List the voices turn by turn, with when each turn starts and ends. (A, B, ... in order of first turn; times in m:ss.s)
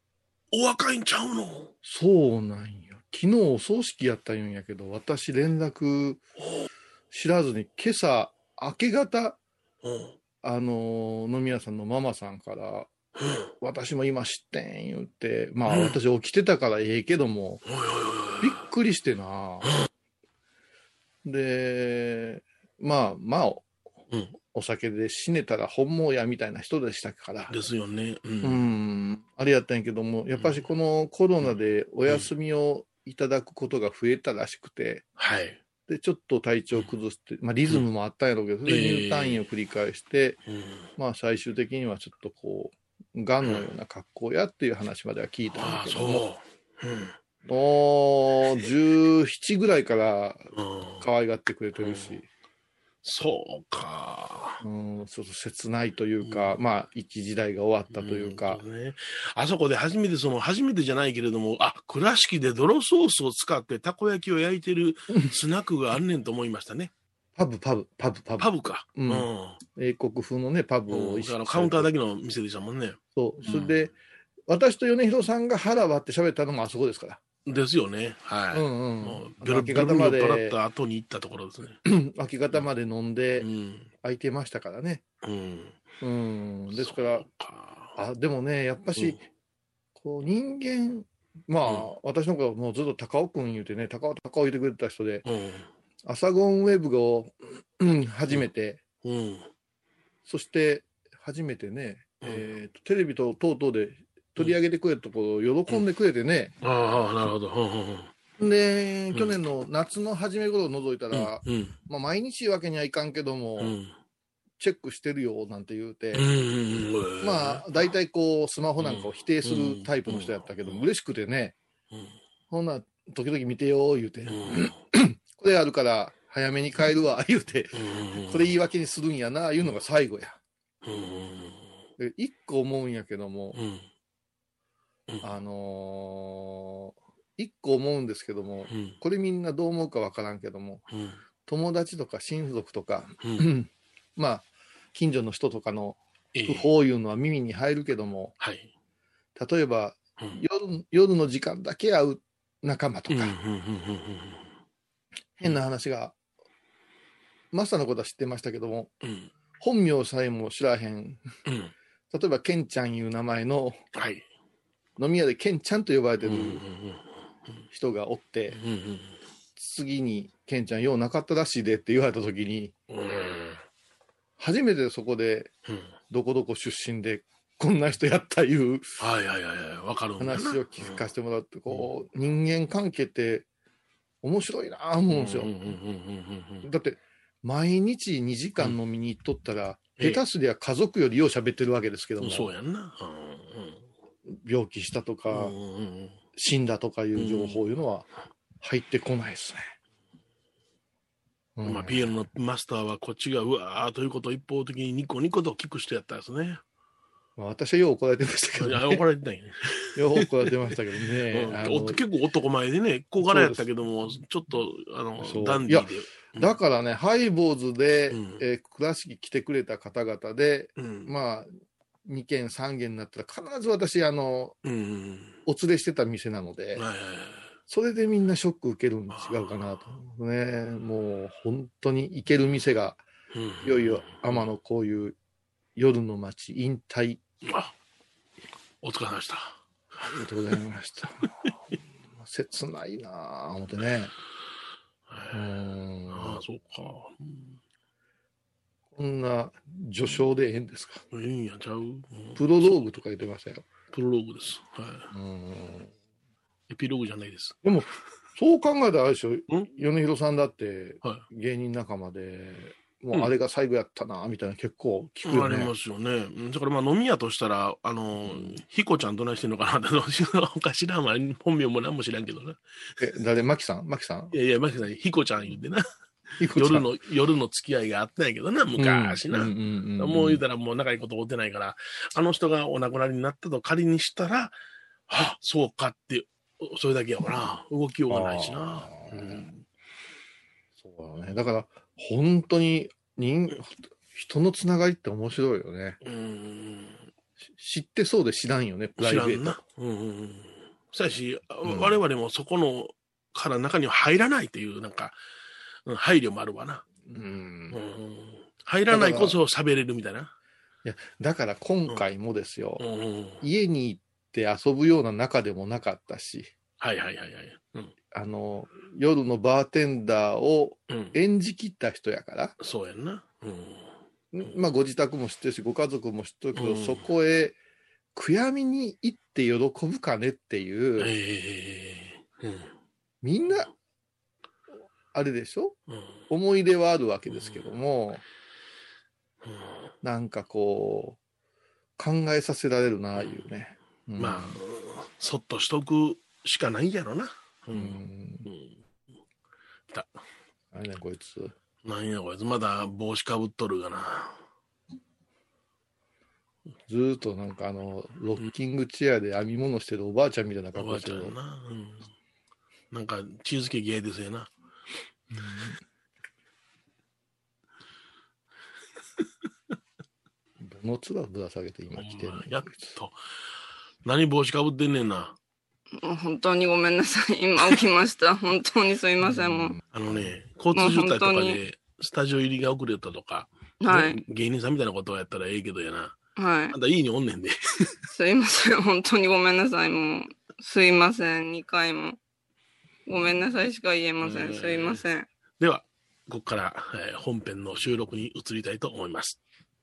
0:00.5-0:01.7 A
0:01.8-0:06.2 B
0:07.1-0:09.4 B
0:09.8-0:10.2 A
0:10.4-0:12.9 B
0:13.6-0:17.6 B
0:15.7-0:16.0 A
0:17.7-0:18.6 A
0:18.4-0:19.8 B
0:21.2-0:23.7 B
0:24.5-0:27.6 B
0:27.5-0:28.7 A
0:28.4-0:35.1 B
0:30.4-0:30.6 A
0:35.2-0:35.6 A
0:35.9-0:40.4 B
0:38.7-0:39.5 A
0:40.5-0:40.9 A
0:41.0-0:46.3 B
0:45.5-0:47.2 A
0:47.4-0:52.3 B
0:50.6-0:51.0 A
0:51.8-0:52.2 A
0:53.0-0:54.6 A
0:54.6-0:58.6 B
0:56.2-0:56.6 A
0:57.9-1:06.9 A
1:05.1-1:05.4 B
1:07.4-1:11.9 B
1:08.4-1:09.6 A
1:10.9-1:13.9 A
1:13.2-1:14.0 B
1:14.5-1:17.2 B
1:17.5-1:21.8 A
1:18.5-1:20.6 B
1:21.8-1:23.5 B
1:23.4-1:23.9 A
1:24.0-1:25.0 B
1:25.2-1:25.8 A
1:26.0-1:27.3 B
1:26.7-1:28.0 A
1:28.0-1:29.2 B
1:30.0-1:35.3 B
1:31.6-1:31.9 A
1:35.2-1:35.7 A
1:36.0-1:38.8 B
1:39.0-1:39.5 A
1:40.3-1:46.6 B
1:46.6-1:48.1 A
1:48.4-1:53.8 B
1:51.1-1:51.8 A
1:53.6-1:53.9 A
1:54.6-1:56.3 B
1:56.1-1:57.7 A
1:57.2-2:01.6 B
1:58.8-2:00.9 A
2:02.5-2:10.4 B
2:04.3-2:04.8 A
2:07.7-2:08.6 A
2:10.8-2:11.7 A
2:12.0-2:13.6 B
2:13.5-2:13.9 A
2:15.2-2:20.9 B
2:18.7-2:19.0 A
2:20.9-2:21.2 A
2:21.5-2:28.4 B
2:26.3-2:26.7 A
2:28.4-2:28.7 A
2:29.4-2:33.4 B
2:33.1-2:34.5 A
2:35.4-2:36.2 B
2:37.5-2:38.9 B
2:39.0-2:39.3 A
2:39.6-2:41.2 B
2:41.5-2:41.7 A
2:42.1-2:43.8 B
2:43.9-2:44.3 A
2:45.0-2:46.6 B
2:46.2-2:47.6 A
2:47.7-2:48.6 B
2:48.5-2:49.2 A
2:49.6-2:52.8 B
2:52.9-2:53.6 A
2:54.4-2:55.5 B
2:56.1-2:59.0 B
2:59.0-3:01.0 A
3:00.2-3:03.5 B
3:04.2-3:05.6 B
3:05.1-3:06.7 A
3:06.6-3:12.5 B
3:12.2-3:13.9 A
3:14.3-3:15.6 B
3:15.3-3:16.2 A
3:16.4-3:18.1 B
3:17.2-3:17.6 A
3:18.6-3:19.7 B
3:21.6-3:22.1 B
3:21.6-3:26.6 A
3:27.4-3:29.0 B
3:28.6-3:30.5 A
3:30.0-3:32.0 B
3:31.3-3:36.6 A
3:33.2-3:33.7 B
3:35.2-3:41.5 B
3:38.1-3:38.4 A
3:40.8-3:41.1 A
3:42.0-3:44.6 B
3:44.6-3:45.4 A
3:45.5-3:46.9 B
3:46.8-3:47.5 A
3:47.7-3:53.0 B
3:49.1-3:50.0 A
3:53.3-3:54.4 A
3:53.6-3:55.2 B
3:55.8-3:57.2 B
3:57.4-3:57.8 A
3:58.8-3:59.6 A
4:00.0-4:04.1 B
4:05.1-4:05.5 A
4:05.3-4:06.4 B
4:06.1-4:07.6 A
4:09.0-4:11.0 B
4:11.1-4:12.8 A
4:12.4-4:13.7 B
4:13.9-4:15.1 A
4:15.1-4:15.9 B
4:16.7-4:17.6 A
4:17.6-4:25.7 B
4:25.2-4:32.6 A
4:28.3-4:28.5 B
4:33.0-4:34.4 B
4:34.3-4:35.8 A
4:36.4-4:36.9 B
4:36.4-4:44.6 A
4:38.8-4:40.4 B
4:45.1-4:49.6 A
4:48.1-4:49.5 B
4:50.8-4:56.0 B
4:56.0-4:57.1 A
4:57.6-4:59.6 B
4:59.0-5:05.2 A
5:01.6-5:02.0 B
5:05.9-5:06.8 A
5:07.1-5:07.8 B
5:07.7-5:10.3 A
5:08.9-5:09.4 B
5:10.8-5:12.8 B
5:12.8-5:13.4 A
5:13.4-5:16.5 B
5:16.8-5:17.9 A
5:18.1-5:22.6 B
5:20.9-5:21.2 A
5:22.6-5:23.9 A
5:24.3-5:27.6 B
5:26.6-5:27.0 A
5:28.2-5:31.1 B
5:31.0-5:32.7 A
5:33.2-5:33.7 B
5:35.1-5:35.8 B
5:35.9-5:36.2 A
5:36.3-5:38.2 B
5:37.3-5:37.7 A
5:39.4-5:39.9 A
5:40.0-5:41.2 B
5:42.0-5:44.6 B
5:43.2-5:43.4 A
5:44.2-5:48.8 A
5:47.7-5:48.5 B
5:50.7-5:51.5 B
5:51.8-5:54.4 A
5:56.9-6:01.4 B
6:00.8-6:02.1 A
6:02.9-6:04.5 A
6:05.3-6:05.8 B
6:10.6-6:12.9 B
6:12.0-6:13.2 A
6:14.0-6:15.4 A
6:16.0-6:19.8 C
6:19.2-6:20.4 B
6:19.9-6:26.2 A
6:20.7-6:21.6 C
6:23.8-6:24.2 C
6:26.4-6:26.8 C
6:26.7-6:28.0 A
6:28.1-6:32.2 C
6:33.1-6:35.3 C
6:34.2-6:35.0 A
6:35.6-6:39.4 A